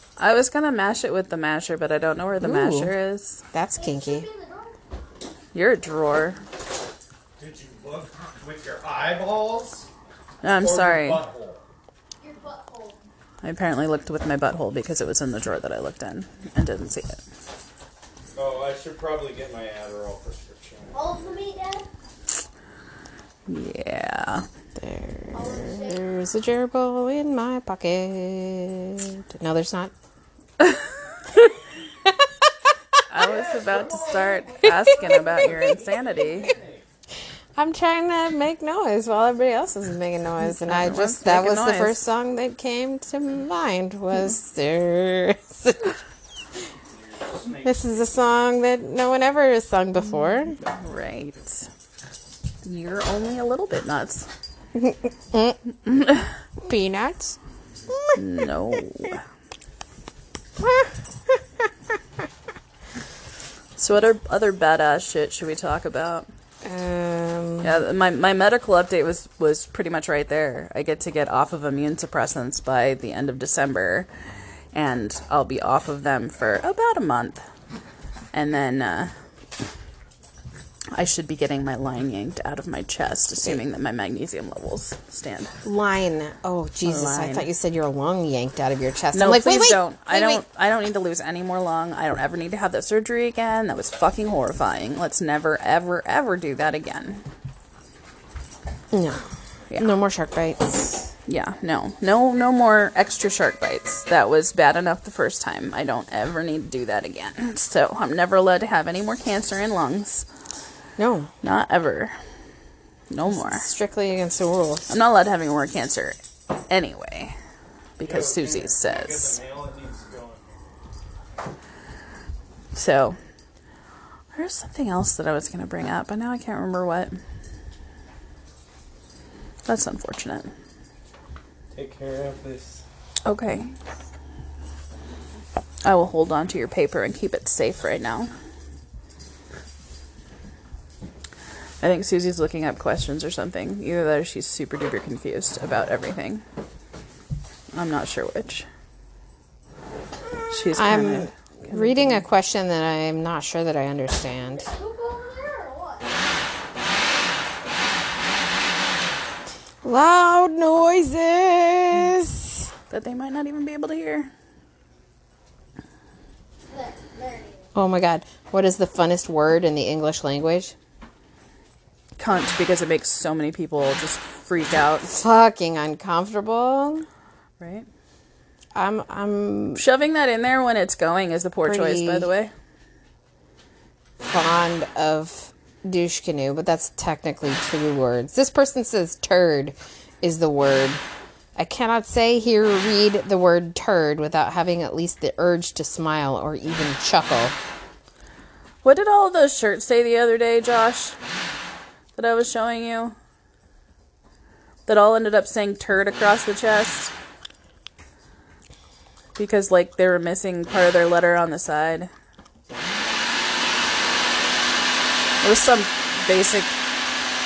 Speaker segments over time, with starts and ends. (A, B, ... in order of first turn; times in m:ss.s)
0:00.2-0:03.4 A
0:02.4-0:02.9 B
0:03.5-0:04.3 B
0:03.8-0:04.8 C
0:05.5-0:06.4 A
0:07.4-0:09.9 D
0:10.4-0:11.2 A
0:10.6-0:11.6 D
0:12.2-0:13.0 C
0:13.4-0:17.2 A
0:18.4-0:21.2 D
0:20.9-0:21.9 C
0:23.5-0:24.5 A
0:24.8-0:29.9 B
0:25.3-0:26.0 C
0:33.1-0:36.5 A
0:33.2-0:36.8 D
0:34.7-0:35.2 B
0:37.6-0:46.0 B
0:40.4-0:42.0 A
0:46.9-0:48.0 D
0:47.6-0:50.6 B
0:50.6-0:51.7 A
0:52.6-0:54.3 A
0:54.8-0:55.6 B
0:55.9-0:56.3 A
0:56.6-0:57.4 B
0:57.9-0:58.2 B
0:58.2-0:59.2 A
1:00.6-1:00.9 B
1:03.8-1:06.3 A
1:06.6-1:07.8 B
1:07.6-1:14.1 A
1:14.7-1:17.4 A
1:18.3-1:19.1 A
1:20.9-1:25.5 A
1:25.6-1:30.4 B
1:26.8-1:27.5 A
1:29.1-1:37.2 A
1:38.9-1:41.1 B
1:41.3-1:50.3 A
1:51.0-1:51.3 B
1:51.4-1:52.2 A
1:53.1-1:53.7 A
1:53.3-1:54.9 B
1:54.9-1:56.2 A
1:56.7-1:57.4 A
1:58.0-1:59.4 A
1:58.0-2:00.5 D
2:02.7-2:03.2 A
2:04.3-2:07.2 A
2:09.7-2:10.5 A
2:11.7-2:12.8 D
2:13.2-2:13.7 A
2:15.8-2:18.3 A
2:21.8-2:26.4 A
2:27.7-2:28.7 A
2:30.5-2:32.2 A
2:30.7-2:34.7 B
2:34.6-2:36.1 C
2:39.8-2:42.7 B
2:42.9-2:44.3 A
2:46.7-2:47.7 C
2:47.8-2:50.8 B
2:52.2-2:55.1 A
2:55.1-2:57.1 B
2:57.6-2:57.9 A
2:58.8-2:59.8 B
2:59.8-3:02.5 A
3:01.6-3:02.3 B
3:04.2-3:11.0 B
3:11.6-3:17.6 B
3:18.8-3:21.2 A
3:22.2-3:23.2 A
3:24.9-3:27.1 A
3:29.4-3:32.1 A
3:35.4-3:36.7 A